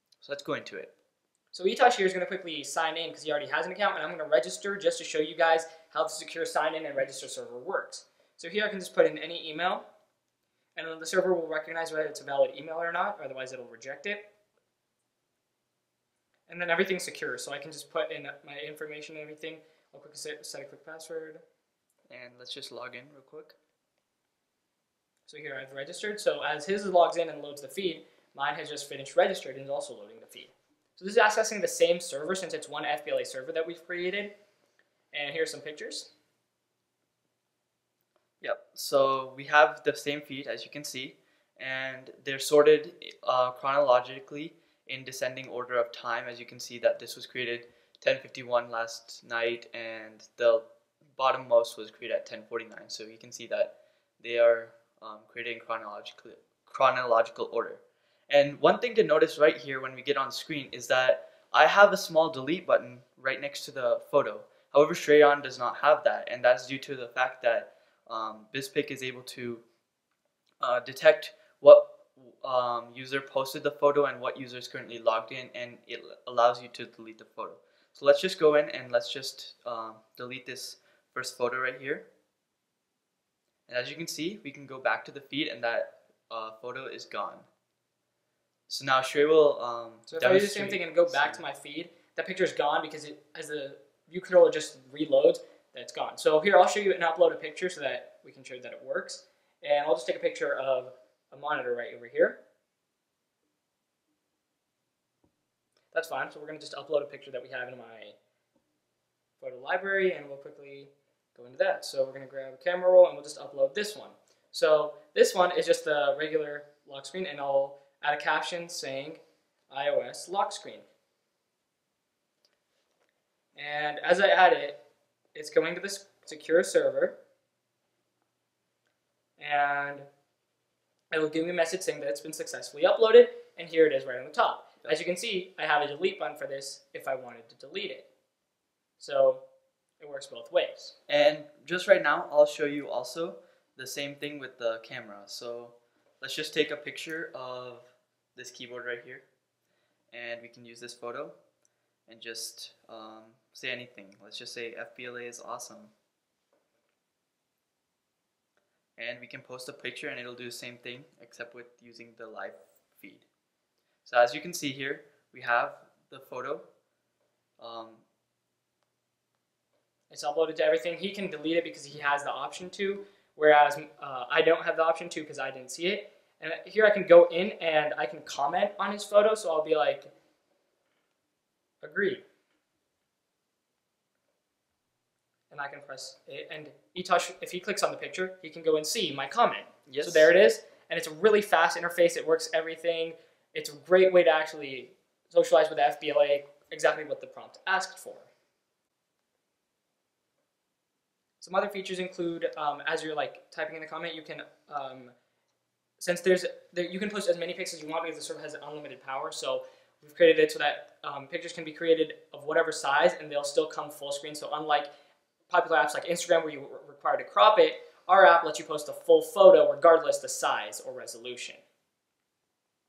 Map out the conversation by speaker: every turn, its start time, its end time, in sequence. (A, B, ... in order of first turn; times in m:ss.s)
0:00.2-0:00.9 A
0:01.5-0:09.9 B
0:10.8-0:14.3 B
0:16.5-0:21.4 B
0:22.1-0:23.6 A
0:25.3-0:34.3 B
0:35.1-0:36.1 B
0:38.4-1:09.6 A
1:10.6-1:22.1 A
1:23.7-1:27.5 A
1:28.7-1:31.4 A
1:30.1-1:42.4 B
1:45.9-1:48.2 B
1:49.4-2:00.9 B
2:03.6-2:04.8 B
2:05.4-2:07.2 B
2:09.4-2:10.1 B
2:11.1-2:18.1 B
2:19.0-2:19.4 B
2:20.0-2:21.0 B
2:21.1-2:29.3 A
2:30.1-2:31.4 A
2:32.1-2:35.9 A
2:39.0-2:43.3 A
2:44.1-2:46.6 A
2:47.6-2:48.0 A
2:50.1-3:00.1 B
3:01.8-3:02.2 B
3:05.5-3:18.3 B
3:09.9-3:10.3 A
3:21.4-3:25.2 B
3:26.0-3:34.9 B
3:35.5-3:41.6 B